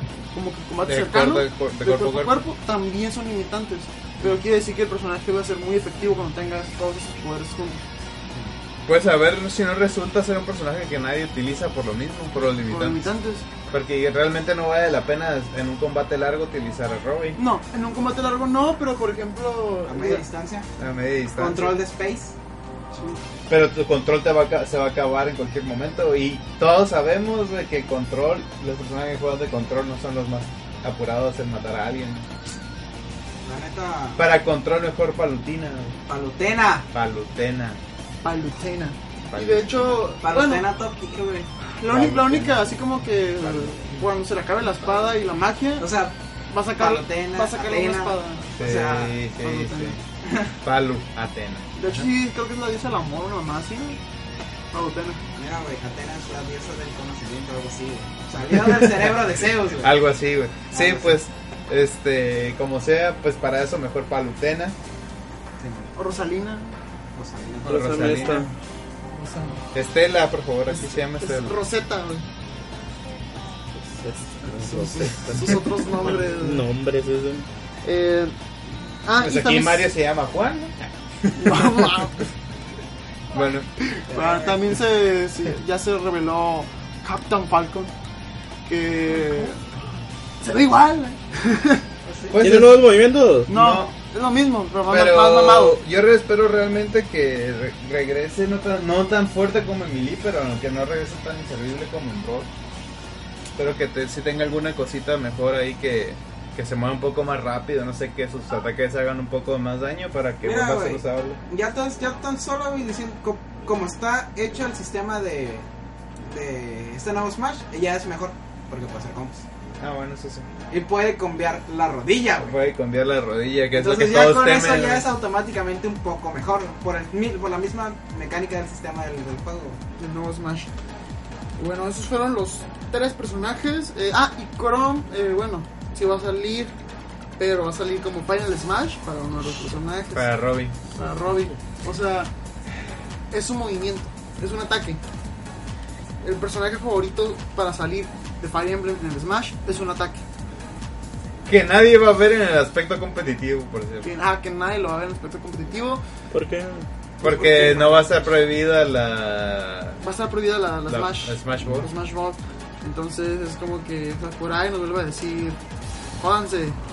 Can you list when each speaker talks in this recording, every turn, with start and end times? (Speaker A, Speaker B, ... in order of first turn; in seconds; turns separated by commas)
Speaker A: 0.3-7.8, Speaker B: 0.8-2.4, Speaker B: 8.9-13.1, Speaker A: 12.7-13.5, Speaker B: 13.7-17.4, Speaker A: 17.4-20.2, Speaker C: 19.9-20.7, Speaker B: 20.8-21.8, Speaker C: 21.4-22.3, Speaker A: 22.9-23.2, Speaker B: 23.5-32.3, Speaker C: 33.4-34.2, Speaker B: 34.2-36.0, Speaker C: 36.1-36.9, Speaker B: 36.9-37.8, Speaker A: 38.2-40.6, Speaker B: 39.3-40.0, Speaker C: 40.2-41.5, Speaker A: 41.8-45.9, Speaker B: 41.8-42.8, Speaker C: 45.8-46.1, Speaker A: 46.5-48.5, Speaker C: 46.8-49.2, Speaker B: 48.6-50.0, Speaker A: 49.4-50.0, Speaker C: 50.2-50.5, Speaker B: 50.6-52.0, Speaker A: 51.8-54.0, Speaker A: 54.7-55.2, Speaker C: 55.3-60.0, Speaker B: 58.6-59.1, Speaker B: 59.8-64.8, Speaker C: 60.7-61.2, Speaker C: 65.6-65.9, Speaker A: 66.0-66.7, Speaker C: 67.1-68.5, Speaker B: 67.6-68.5, Speaker D: 67.7-68.5, Speaker A: 69.1-69.6, Speaker B: 69.7-71.6, Speaker A: 70.7-72.2, Speaker D: 73.8-77.5, Speaker A: 74.5-76.7, Speaker A: 77.8-78.3, Speaker A: 79.0-79.9, Speaker B: 79.2-82.1, Speaker A: 81.3-82.2, Speaker B: 83.3-83.7, Speaker A: 83.9-87.9, Speaker C: 84.1-84.6, Speaker A: 88.7-89.6, Speaker A: 90.4-91.8, Speaker C: 92.0-92.6, Speaker B: 92.3-92.8, Speaker D: 92.4-93.5, Speaker B: 93.5-93.9, Speaker A: 93.5-95.8, Speaker B: 94.9-102.5, Speaker B: 103.5-111.4, Speaker C: 110.4-115.7, Speaker C: 116.2-119.4, Speaker B: 119.8-120.5, Speaker C: 120.7-122.5, Speaker B: 122.4-125.1, Speaker C: 123.7-129.8, Speaker A: 130.0-130.7, Speaker A: 131.6-136.7, Speaker A: 137.4-140.4, Speaker B: 140.1-140.8, Speaker A: 140.9-142.3, Speaker A: 143.3-145.0, Speaker A: 146.2-150.2, Speaker B: 151.4-154.1, Speaker A: 154.0-156.0, Speaker D: 156.3-156.9, Speaker A: 157.2-158.2, Speaker B: 157.2-160.0, Speaker A: 160.0-165.6, Speaker B: 160.9-161.9, Speaker A: 166.2-166.8